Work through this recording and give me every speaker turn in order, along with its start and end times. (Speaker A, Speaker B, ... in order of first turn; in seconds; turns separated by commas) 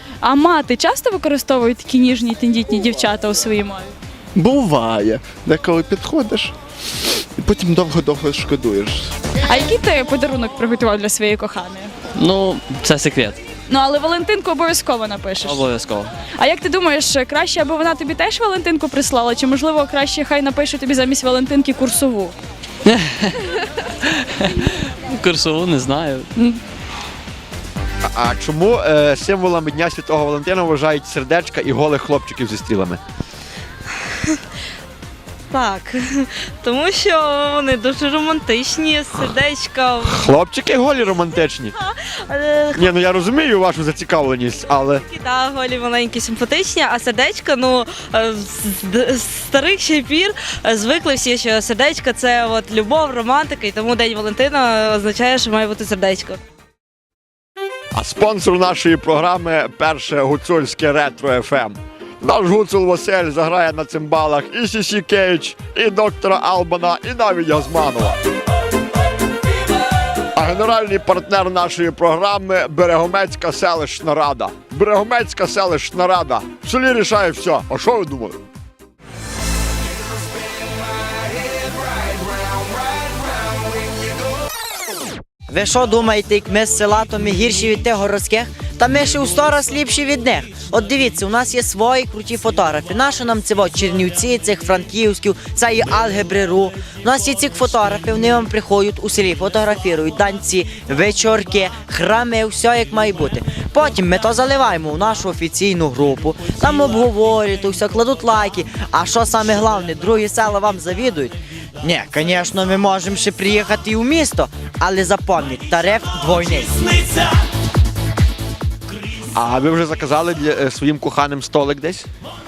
Speaker A: 0.2-3.9, Speaker B: 4.3-6.5, Speaker B: 7.3-9.1, Speaker A: 9.4-11.9, Speaker C: 12.2-13.3, Speaker A: 13.7-15.7, Speaker C: 15.4-16.1, Speaker A: 16.4-22.3, Speaker C: 25.2-26.2, Speaker D: 28.1-33.0, Speaker E: 35.5-40.3, Speaker D: 40.0-41.7, Speaker E: 41.7-43.0, Speaker D: 42.7-45.0, Speaker E: 45.0-56.4, Speaker D: 57.9-68.2, Speaker D: 70.3-78.4, Speaker F: 85.5-117.1, Speaker D: 119.3-122.1